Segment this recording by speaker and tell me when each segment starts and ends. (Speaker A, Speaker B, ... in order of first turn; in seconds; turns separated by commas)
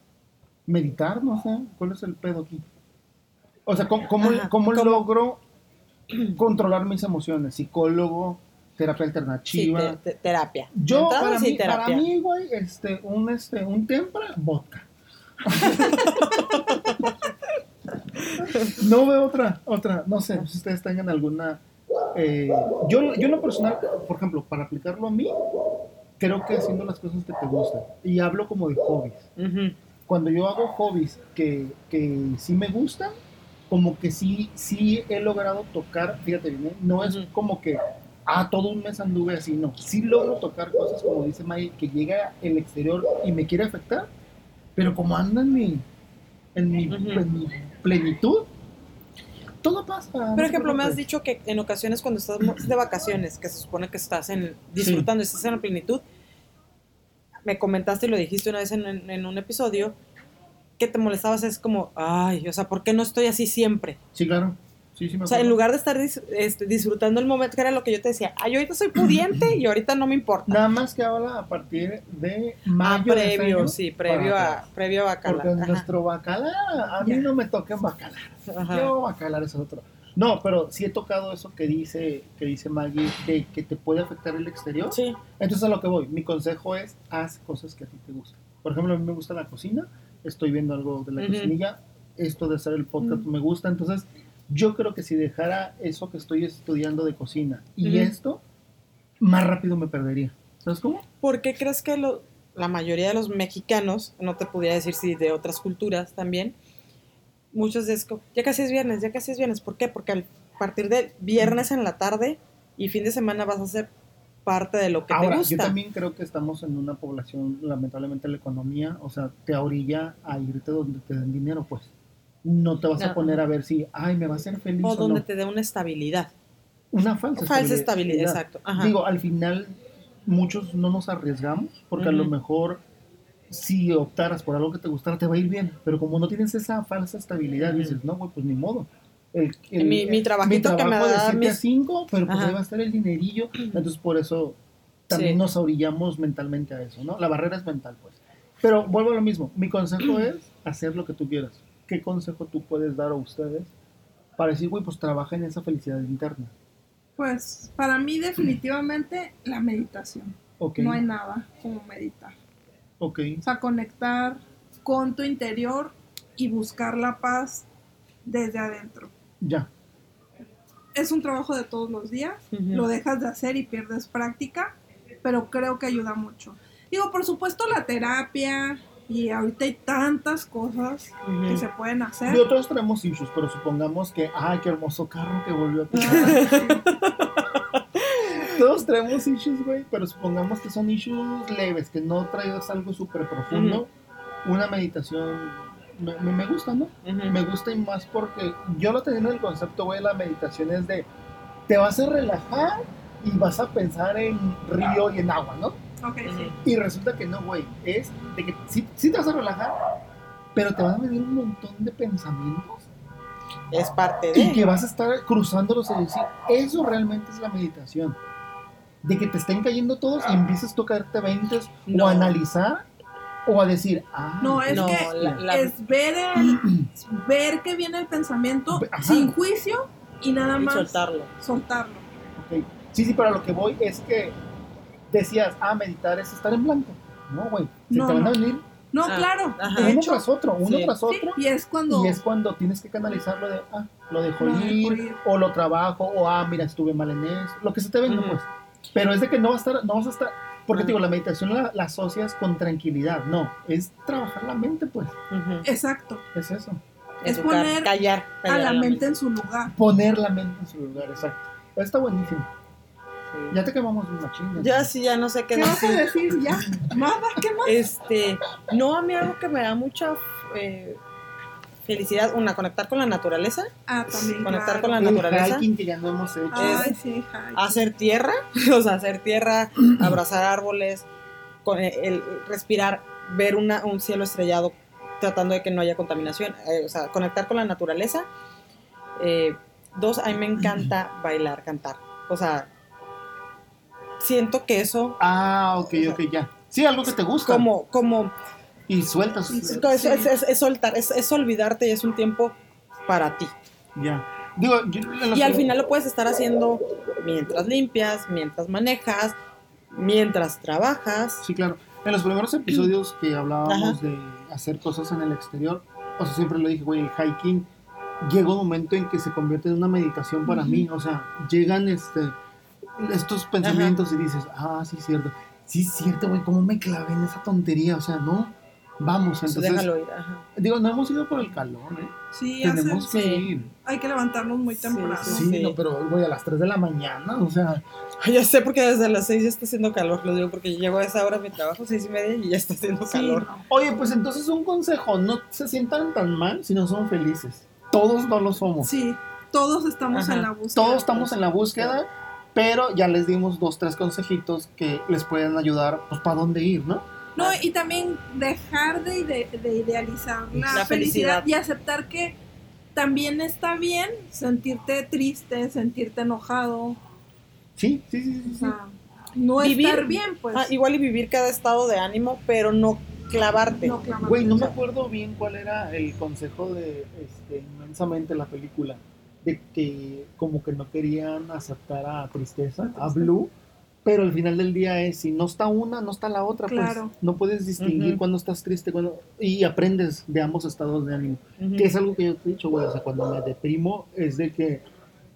Speaker A: 0.7-2.7, Speaker A: 3.6-5.4, Speaker B: 4.2-5.0, Speaker A: 6.3-10.0, Speaker B: 9.5-12.1, Speaker A: 10.7-14.9, Speaker A: 15.4-16.2, Speaker B: 15.7-16.9, Speaker B: 18.2-18.8, Speaker A: 18.4-25.3, Speaker A: 26.2-29.3, Speaker B: 29.4-29.7, Speaker A: 30.1-33.1, Speaker A: 33.7-44.1, Speaker B: 37.0-37.3, Speaker A: 44.8-45.8, Speaker A: 46.5-48.5, Speaker B: 46.9-47.2, Speaker A: 49.6-51.0, Speaker B: 50.3-56.0, Speaker A: 54.8-55.1, Speaker B: 57.5-60.0, Speaker B: 60.8-64.0, Speaker A: 64.1-65.6, Speaker B: 65.2-70.6, Speaker A: 70.5-74.6, Speaker B: 72.8-75.9, Speaker A: 75.2-98.4, Speaker B: 78.5-78.9, Speaker B: 84.9-85.2, Speaker B: 91.2-91.5, Speaker B: 97.8-98.1, Speaker A: 99.2-101.0, Speaker B: 101.2-106.5, Speaker B: 107.5-113.9, Speaker B: 114.5-115.8, Speaker A: 115.1-121.9, Speaker A: 122.4-125.2, Speaker B: 123.0-123.4, Speaker B: 124.8-126.3, Speaker A: 126.9-132.8, Speaker B: 127.3-128.9, Speaker B: 132.0-132.3, Speaker A: 133.5-144.6, Speaker B: 137.6-137.9, Speaker B: 139.8-141.6, Speaker B: 142.3-142.6, Speaker A: 145.1-153.7, Speaker B: 145.1-145.4, Speaker A: 154.4-156.5, Speaker C: 157.2-162.3, Speaker A: 160.6-161.0, Speaker A: 163.0-163.4, Speaker C: 163.4-167.7, Speaker C: 168.2-169.1, Speaker A: 169.4-169.7, Speaker C: 170.9-182.4, Speaker B: 172.5-172.9, Speaker B: 181.2-181.6, Speaker A: 182.2-186.6, Speaker C: 185.9-186.8, Speaker B: 185.9-188.5, Speaker A: 188.4-193.9, Speaker B: 193.5-193.8, Speaker A: 194.4-201.1, Speaker B: 197.0-197.4, Speaker A: 201.7-205.8, Speaker C: 206.0-206.5, Speaker B: 206.2-206.6, Speaker A: 206.6-209.7, Speaker A: 210.5-212.9, Speaker B: 213.7-214.6, Speaker A: 214.3-218.2, Speaker A: 219.0-222.8, Speaker B: 221.9-222.4, Speaker A: 223.4-225.4, Speaker C: 224.4-232.1, Speaker B: 224.7-225.7, Speaker A: 226.3-226.9, Speaker A: 228.7-229.3, Speaker B: 230.6-231.3, Speaker A: 232.3-234.4, Speaker A: 235.1-238.6, Speaker C: 237.9-240.2, Speaker B: 239.0-240.0, Speaker A: 239.8-255.1, Speaker B: 240.6-240.9, Speaker C: 241.0-242.2, Speaker C: 244.4-245.2, Speaker B: 248.1-248.4, Speaker B: 255.3-255.7, Speaker C: 255.6-256.2, Speaker A: 256.3-256.8, Speaker B: 257.2-259.1, Speaker C: 257.2-257.9, Speaker C: 258.4-259.7, Speaker A: 259.7-262.5, Speaker B: 263.3-263.6, Speaker A: 263.5-264.9, Speaker B: 264.6-266.0, Speaker C: 265.5-267.8, Speaker A: 265.6-266.9, Speaker B: 267.6-271.0, Speaker B: 271.8-273.7, Speaker C: 273.9-275.2, Speaker B: 274.4-275.7, Speaker A: 275.0-276.9, Speaker C: 276.5-277.8, Speaker B: 276.5-276.9, Speaker B: 277.5-281.1, Speaker B: 281.6-288.3, Speaker B: 289.2-292.7, Speaker B: 294.2-295.2, Speaker A: 295.2-297.7, Speaker B: 297.4-298.3, Speaker A: 298.9-299.9, Speaker C: 299.5-300.3, Speaker B: 299.7-303.5, Speaker A: 303.9-305.7, Speaker B: 305.3-309.4, Speaker B: 309.9-311.4, Speaker A: 311.4-317.7, Speaker B: 313.6-314.0, Speaker A: 318.2-322.4, Speaker A: 323.0-329.9, Speaker B: 323.6-323.9, Speaker B: 329.5-330.4, Speaker A: 330.5-333.7, Speaker C: 332.3-333.3, Speaker B: 333.1-333.4, Speaker C: 333.8-335.5, Speaker B: 334.7-335.8, Speaker A: 335.2-337.8, Speaker B: 338.2-343.5, Speaker C: 343.1-343.6, Speaker A: 343.7-348.9, Speaker C: 348.8-351.3, Speaker B: 350.1-350.5, Speaker A: 350.7-357.1, Speaker C: 357.4-362.4, Speaker B: 357.4-357.6, Speaker A: 360.5-360.9, Speaker B: 360.7-361.5, Speaker C: 362.9-367.0, Speaker A: 367.8-368.8, Speaker C: 368.4-370.7, Speaker B: 369.6-373.9, Speaker C: 373.8-374.7, Speaker A: 374.2-383.5, Speaker C: 383.0-383.3, Speaker A: 384.0-394.9, Speaker C: 386.7-387.1, Speaker B: 387.8-388.2, Speaker B: 391.6-391.9